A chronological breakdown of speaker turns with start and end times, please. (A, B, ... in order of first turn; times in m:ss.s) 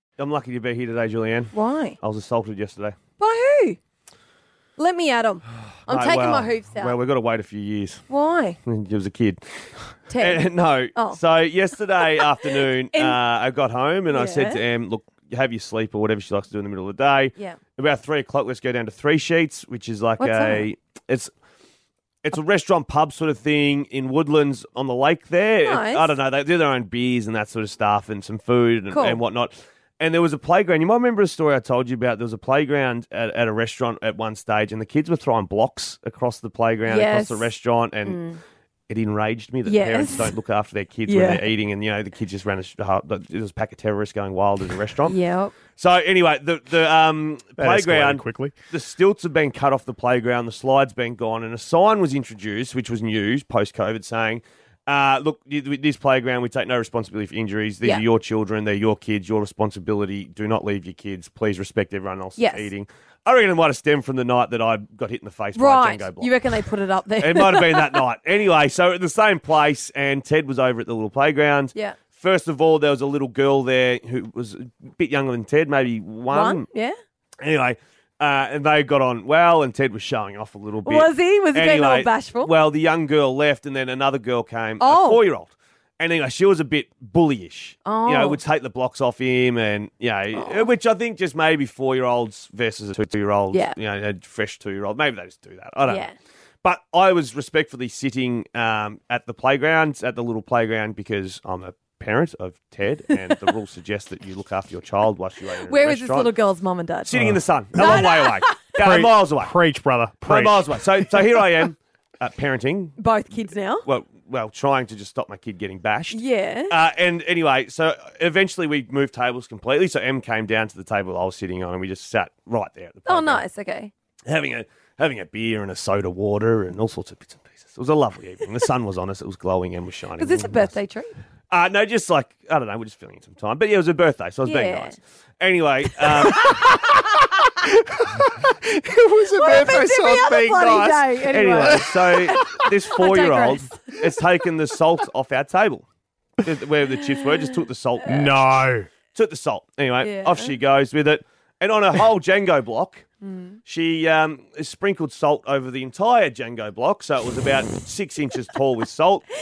0:00.2-0:03.0 A
0:01.5-0:02.0 B
0:03.2-0:03.8 B
0:04.8-0:07.0 B
0:05.9-0:08.0 A
0:08.1-0:08.6 B
0:08.6-0:09.4 A
0:10.1-0:11.2 B
0:10.2-0:21.3 A
0:12.0-0:13.2 B
0:14.1-0:14.6 B
0:20.2-0:20.7 B
0:22.2-0:38.2 A
0:25.6-0:26.1 B
0:28.9-0:29.2 B
0:36.9-0:37.5 B
0:38.0-0:38.4 B
0:38.9-0:45.2 A
0:39.7-0:40.3 B
0:41.1-0:41.4 B
0:45.0-0:45.6 B
0:45.8-1:06.3 A
0:47.6-0:48.5 C
1:02.4-1:02.7 B
1:05.6-1:08.0 B
1:07.2-1:16.7 A
1:16.3-1:16.9 B
1:17.4-1:36.0 A
1:20.8-1:22.5 B
1:24.8-1:25.2 B
1:27.8-1:28.4 B
1:30.3-1:30.7 B
1:35.9-1:36.1 B
1:36.6-1:46.3 A
1:45.6-1:47.1 B
1:47.0-1:49.5 A
1:47.1-1:47.4 C
1:47.8-1:48.6 B
1:48.8-1:51.0 C
1:50.2-1:53.0 A
1:53.0-1:53.8 B
1:53.8-2:03.4 A
1:56.1-1:56.8 B
2:03.1-2:03.9 B
2:04.3-2:10.7 A
2:10.2-2:11.2 B
2:11.5-2:16.6 A
2:14.4-2:15.0 B
2:16.2-2:22.5 C
2:19.3-2:23.9 B
2:21.3-2:25.8 A
2:26.4-2:28.4 A
2:28.0-2:28.9 C
2:29.1-2:33.1 A
2:30.0-2:30.5 B
2:33.2-2:33.6 B
2:33.7-2:39.2 A